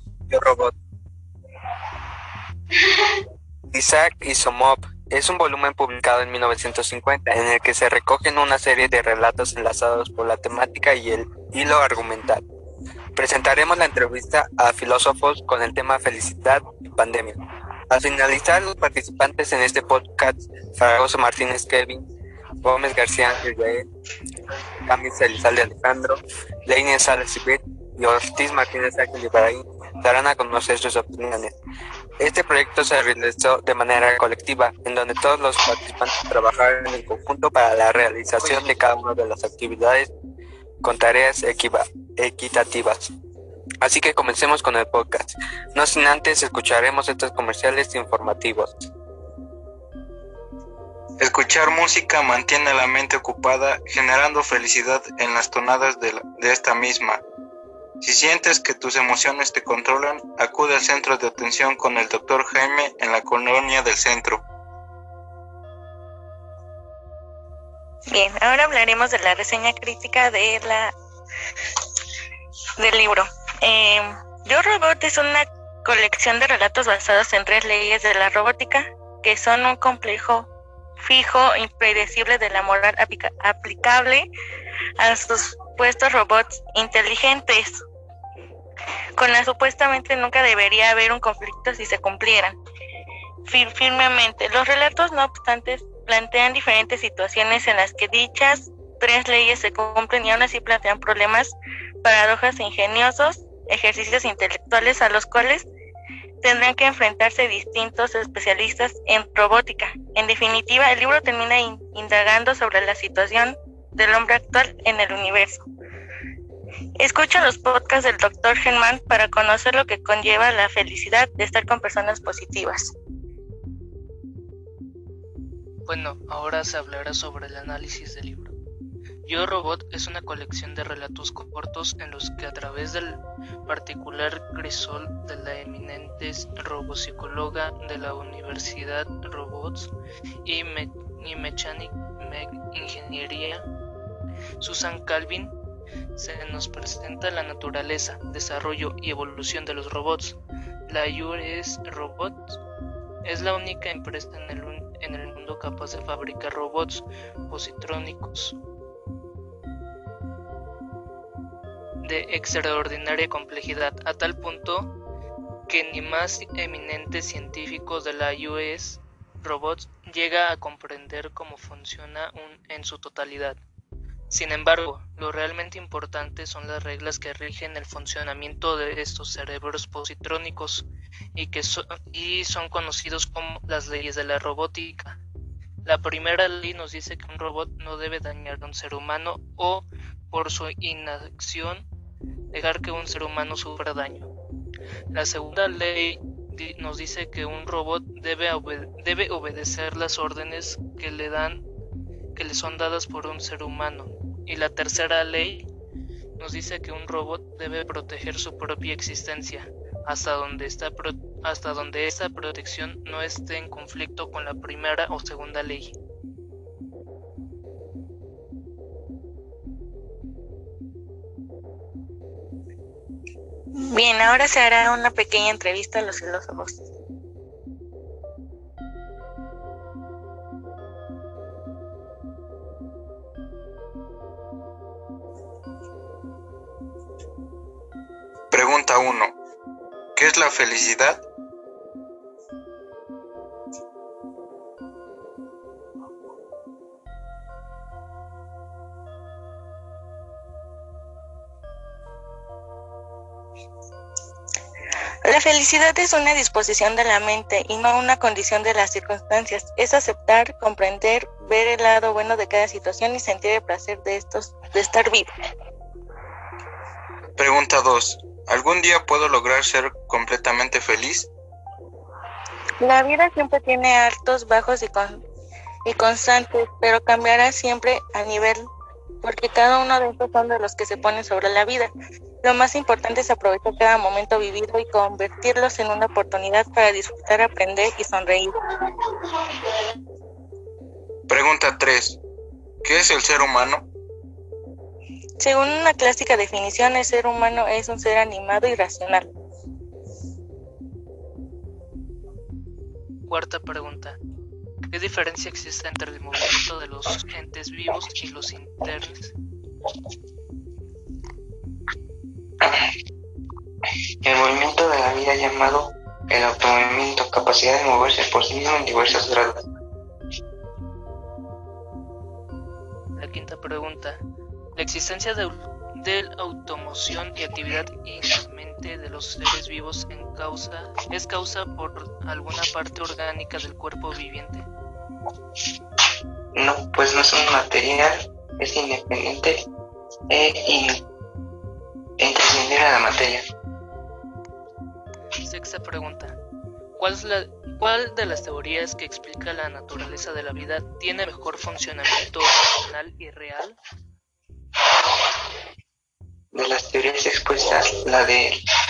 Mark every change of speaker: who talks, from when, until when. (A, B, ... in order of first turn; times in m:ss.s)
0:00.3-0:00.7 A
0:03.7-0:12.4 A
0:13.2-0:22.0 A
0:22.6-0:23.8 A
0:24.9-0:31.5 A
0:32.2-0:40.1 A
0:40.8-0:43.1 A
0:43.8-0:48.7 A
0:51.2-0:57.2 B
0:58.0-1:04.4 B
1:08.1-1:10.9 C
1:12.8-1:20.5 C
1:21.0-1:24.3 C
1:25.0-1:27.8 C
1:29.2-1:32.6 C
1:33.4-1:45.7 C
1:46.4-1:55.7 C
1:57.0-2:02.9 C
2:05.9-2:08.5 D
2:09.3-2:19.9 D
2:20.4-2:23.6 D
2:24.6-2:25.5 D
2:26.2-2:30.4 D
2:30.9-2:32.6 D
2:33.2-2:38.6 D
2:42.0-2:44.9 D
2:45.7-2:53.6 D
2:54.3-3:05.2 D
3:05.8-3:11.8 D
3:12.5-3:14.3 D
3:15.1-3:21.6 D
3:22.4-3:25.7 D
3:26.4-3:36.0 D
3:43.8-3:46.8 C
3:58.5-3:59.4 B
4:00.2-4:01.2 B
4:15.2-4:25.3 C
4:27.4-4:31.3 B
4:32.8-4:35.2 C
4:35.9-4:38.7 C
4:39.2-4:41.9 C
4:42.4-4:48.6 C
4:51.3-4:52.2 B
4:52.8-4:53.8 B
4:55.4-4:59.3 C
5:03.3-5:04.2 D
5:04.9-5:09.3 D
5:14.2-5:19.6 E
5:23.2-5:24.2 D
5:24.8-5:34.7 D
5:36.6-5:39.6 E
5:40.3-5:41.0 E
5:42.2-5:43.5 E
5:45.4-5:46.4 D
5:47.0-5:53.8 D
5:56.5-5:58.6 E